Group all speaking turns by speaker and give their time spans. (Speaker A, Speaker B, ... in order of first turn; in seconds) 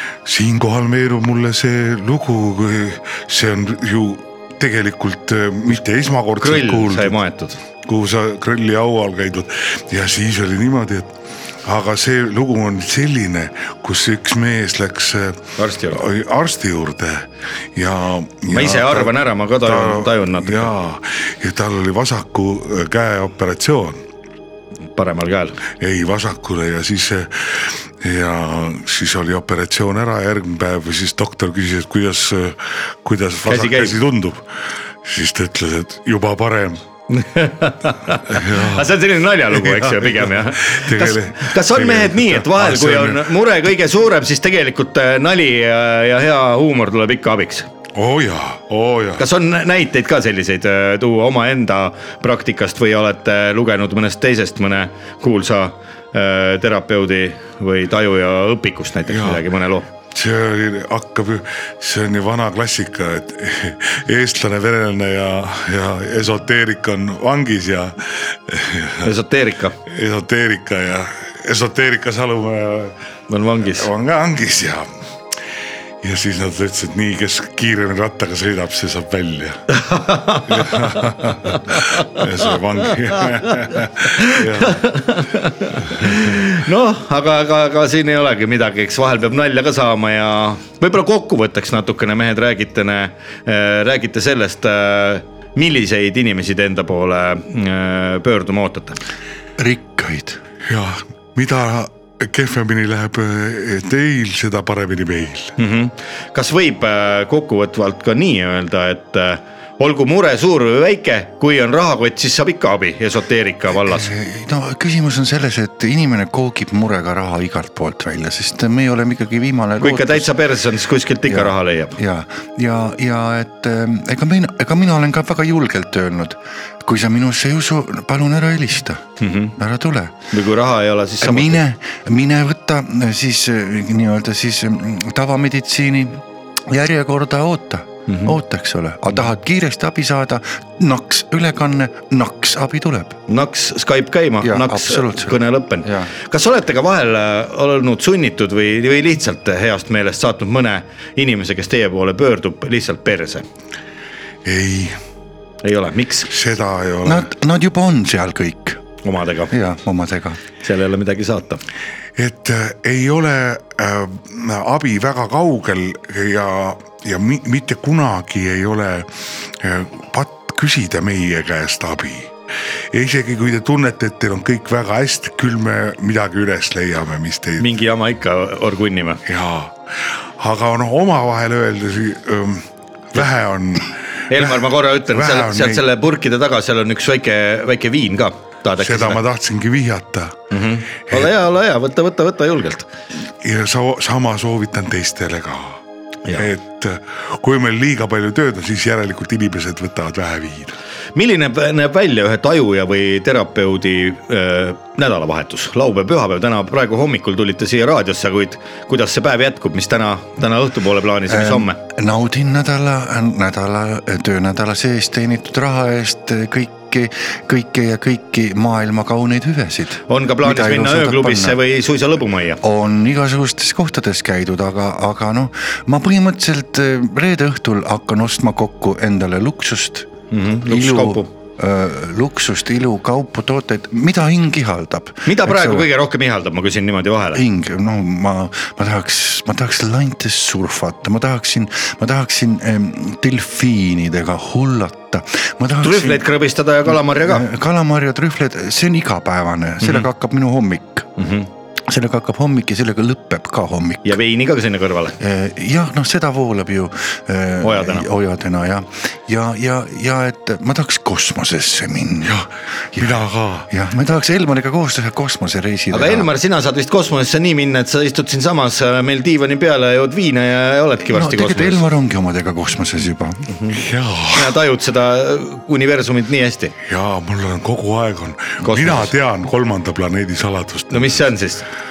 Speaker A: 0.2-7.2, 7.8-11.1, 11.6-24.0, 25.8-34.4, 35.0-36.8, 38.3-39.0, 39.5-43.3, 48.0-49.2, 59.1-59.4, 60.1-69.1, 69.9-72.9, 73.7-74.9, 76.0-79.7, 80.5-84.9, 85.9-86.4, 100.7-105.5, 154.4-155.0, 156.3-157.3, 162.2-172.3, 172.9-177.7, 179.3-185.8, 188.8-190.4, 193.4-195.8, 196.3-200.8, 262.2-263.7, 273.7-274.6, 276.9-281.2
Speaker B: 6.4-7.6, 15.6-16.0, 18.5-20.7, 25.0-25.6, 33.5-34.0, 37.1-47.7, 49.2-59.9, 69.0-69.8, 73.3-73.9, 79.7-82.5, 83.1-99.0, 105.6-114.1, 119.8-122.0, 129.2-129.6, 130.3-131.6, 138.1-138.4, 143.3-153.4, 155.6-156.3, 159.0-159.5, 160.6-161.6, 177.6-179.2, 184.3-189.2, 190.5-192.9, 201.2-211.8, 220.1-222.6, 230.3-231.3, 235.3-237.4, 245.8-247.5, 249.8-250.1, 251.2-251.5, 254.0-255.2, 257.6-258.1, 265.9-271.8, 273.5-273.8, 274.3-276.7, 278.6-279.1, 280.9-281.7
Speaker C: 99.6-100.4, 113.8-120.3, 121.3-129.0, 129.6-130.2, 131.2-143.2, 144.4-146.1, 157.0-158.8, 159.5-160.4, 211.3-221.6, 222.6-230.1, 230.7-235.9, 237.3-246.3, 246.9-251.1, 251.8-254.2, 255.2-262.4, 262.9-266.3, 271.0-273.5